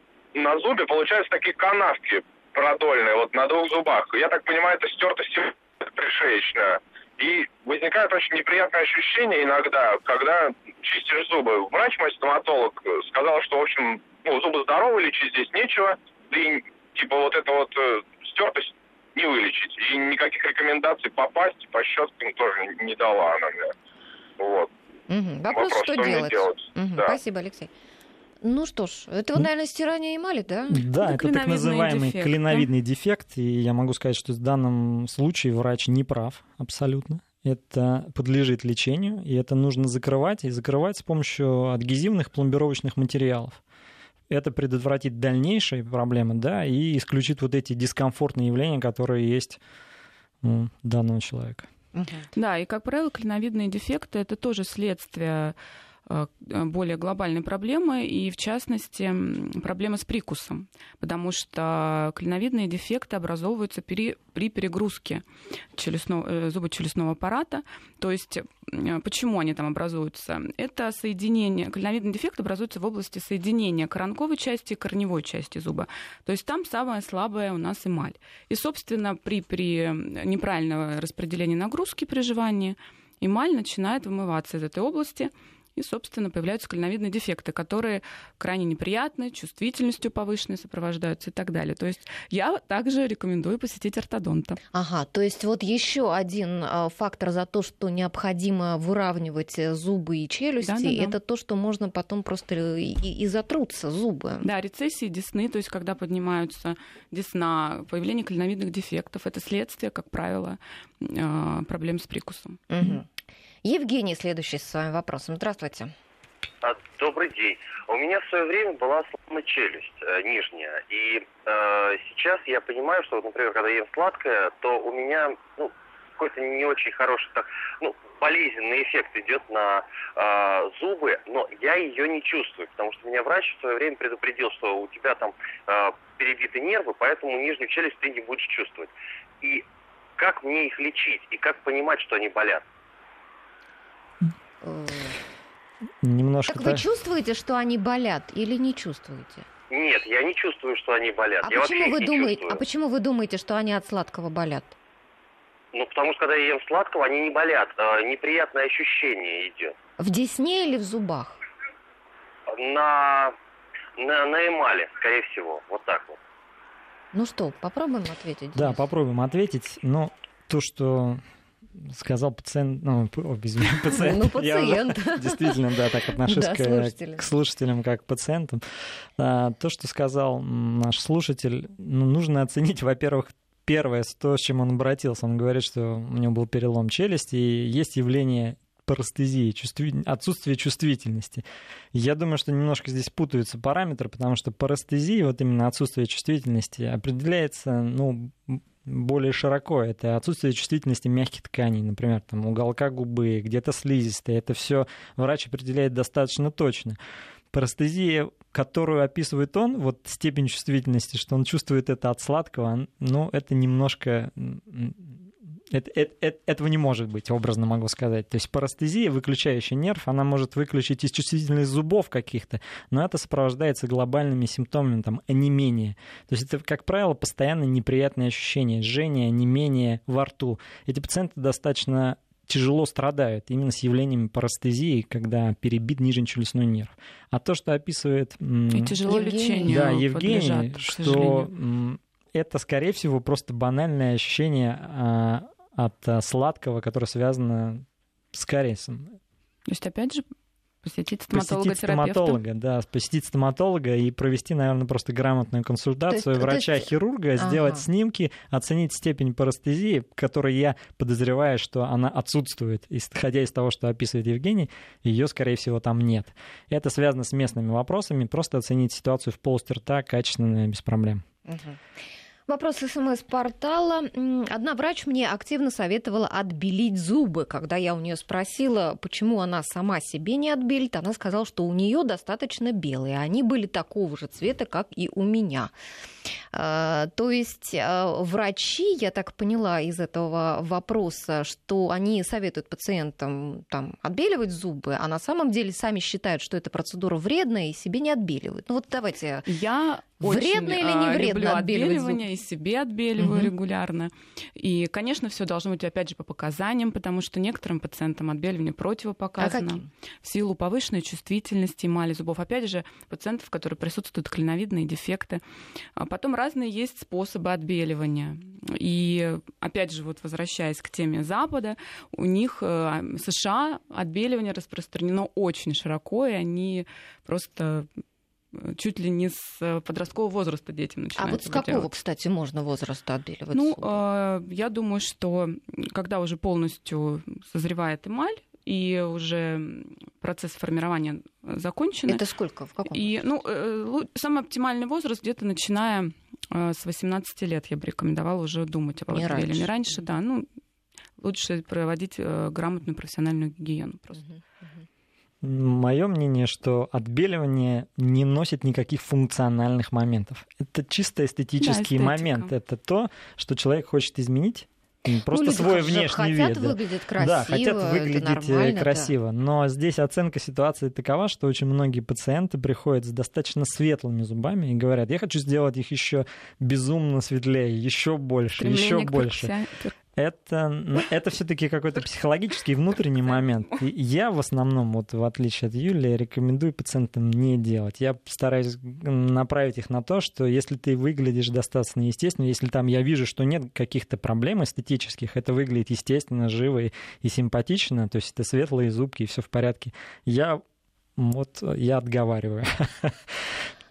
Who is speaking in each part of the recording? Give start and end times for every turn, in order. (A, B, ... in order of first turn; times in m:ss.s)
0:00.4-0:23.7 A
0:24.4-0:24.7 A
0:25.1-0:27.7 B
0:25.5-0:27.2 A
0:28.4-0:30.8 B
0:30.7-0:43.6 C
0:31.0-0:32.7 D
0:44.3-0:49.6 C
0:50.4-0:51.7 C
0:51.9-0:52.2 B
0:52.3-0:55.6 D
0:56.1-1:34.6 D
1:34.7-1:44.5 B
1:40.6-1:41.1 D
1:44.4-1:52.6 D
1:52.7-1:53.0 B
1:53.6-1:55.9 B
1:56.6-2:18.9 E
2:20.2-2:22.6 E
2:24.6-2:25.2 B
2:26.0-2:26.8 C
2:26.5-2:29.4 B
2:29.7-2:32.6 E
2:31.4-2:34.7 B
2:35.7-2:39.7 E
2:40.0-2:41.4 B
2:42.5-2:43.3 E
2:44.0-2:46.2 E
2:47.1-2:48.8 B
2:48.5-2:51.2 C
2:51.8-2:58.6 C
2:53.9-2:55.6 B
2:56.1-2:57.2 B
2:59.2-3:27.0 C
3:27.5-3:59.0 C
3:58.7-4:01.5 D
3:59.1-3:59.8 B
3:59.6-4:09.2 C
4:09.7-4:10.2 D
4:10.8-4:12.4 D
4:11.3-4:31.2 C
4:16.1-4:16.9 B
4:17.4-4:17.8 B
4:31.4-4:31.8 B
4:32.5-4:45.7 B
4:46.5-4:59.5 B
4:59.4-5:15.4 D
5:00.2-5:02.2 B
5:03.2-5:03.5 B
5:09.4-5:09.8 B
5:16.0-5:27.9 D
5:28.5-5:31.9 D
5:31.2-5:34.0 B
5:33.5-5:42.2 D
5:42.1-5:43.1 B
5:42.9-5:50.5 D
5:49.1-5:49.7 B
5:51.2-5:54.3 D
5:55.4-6:19.5 C
6:01.6-6:02.5 D
6:05.3-6:09.1 B
6:18.6-6:19.9 D
6:20.2-6:40.6 C
6:41.2-6:43.5 C